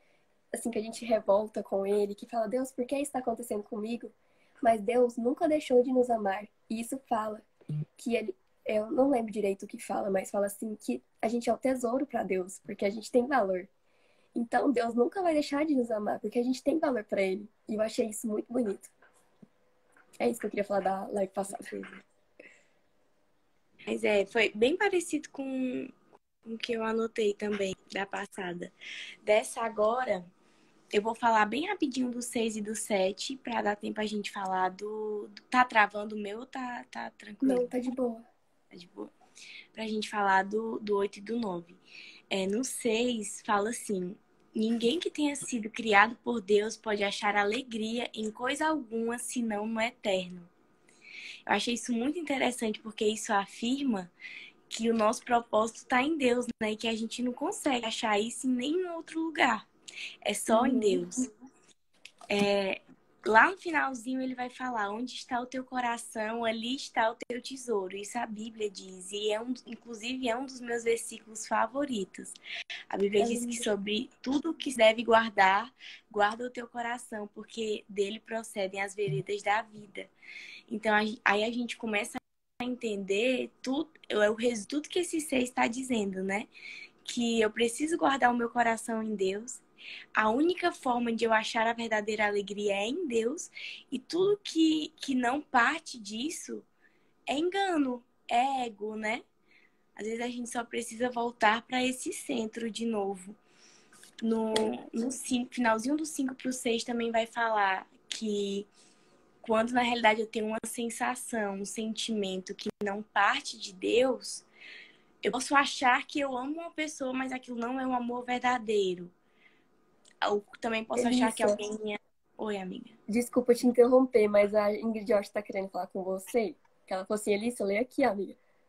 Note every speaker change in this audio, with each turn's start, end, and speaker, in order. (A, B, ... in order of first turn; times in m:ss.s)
0:00.5-0:13.7 A
0:14.3-0:18.9 A
0:20.2-0:21.7 A
0:21.5-0:22.0 B
0:23.9-0:25.9 B
0:26.4-0:28.7 B
0:29.2-0:30.3 B
0:30.9-0:37.7 B
0:37.4-0:38.2 A
0:38.7-0:39.1 B
0:39.7-0:50.5 B
0:51.4-0:54.1 B
0:54.7-0:59.7 B
1:00.2-1:01.3 B
1:00.5-1:01.0 A
1:02.3-1:12.4 B
1:12.9-1:20.1 B
1:13.2-1:13.7 A
1:20.7-1:26.5 B
1:27.0-1:29.6 B
1:30.1-1:36.7 B
1:37.3-1:39.2 B
1:40.0-1:43.4 B
1:44.2-1:48.7 B
1:49.4-1:54.5 B
1:55.2-1:59.1 B
2:00.2-2:03.0 B
2:01.0-2:01.6 A
2:03.1-2:08.4 A